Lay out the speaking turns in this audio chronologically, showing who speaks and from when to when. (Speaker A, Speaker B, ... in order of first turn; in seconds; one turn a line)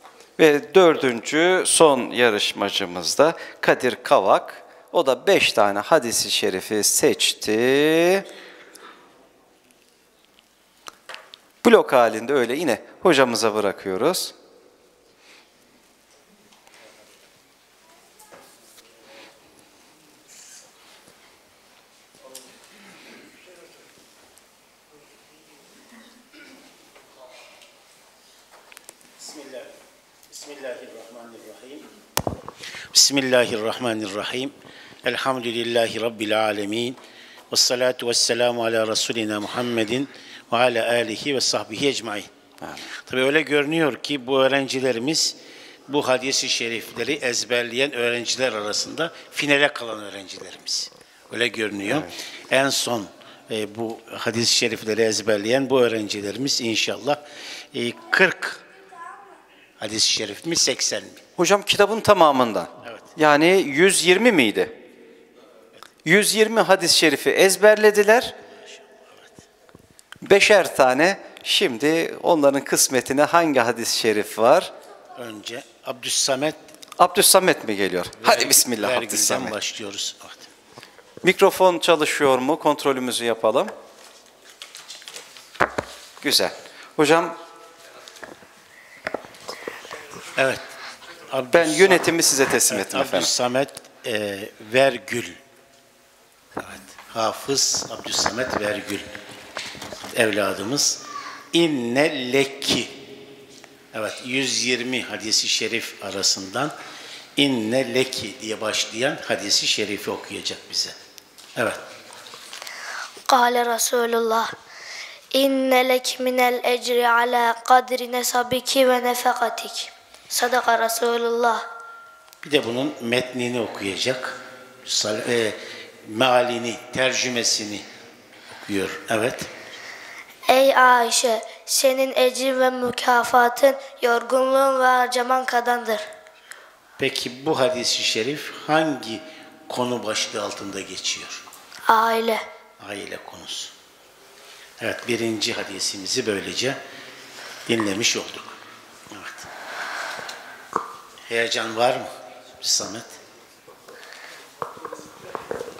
Speaker A: 0.4-8.2
Speaker A: 11.6-14.3
Speaker B: 29.2-29.7
Speaker B: 30.3-31.9
Speaker B: 32.9-37.0
Speaker B: 37.5-42.3
Speaker B: 42.9-57.2
Speaker B: 57.7-58.6
Speaker B: 59.8-61.2
Speaker A: 61.4-64.7
Speaker A: 66.0-68.3
Speaker B: 68.5-69.4
Speaker A: 70.2-74.7
Speaker B: 75.2-76.6
Speaker A: 77.0-79.5
Speaker B: 78.2-80.5
Speaker A: 81.2-83.7
Speaker A: 86.2-87.4
Speaker B: 90.3-90.7
Speaker B: 91.3-92.1
Speaker A: 91.5-93.3
Speaker B: 92.7-95.4
Speaker B: 96.6-99.2
Speaker B: 100.1-103.0
Speaker B: 103.9-106.7
Speaker B: 107.4-111.0
Speaker B: 111.5-111.8
Speaker C: 113.3-114.5
Speaker C: 115.3-121.6
Speaker B: 122.4-127.8
Speaker B: 128.7-129.5
Speaker C: 130.5-136.1
Speaker B: 137.0-141.4
Speaker C: 141.9-142.4
Speaker B: 142.8-143.7
Speaker B: 144.8-146.8
Speaker B: 147.7-148.6
Speaker B: 149.1-149.5
Speaker B: 151.3-153.2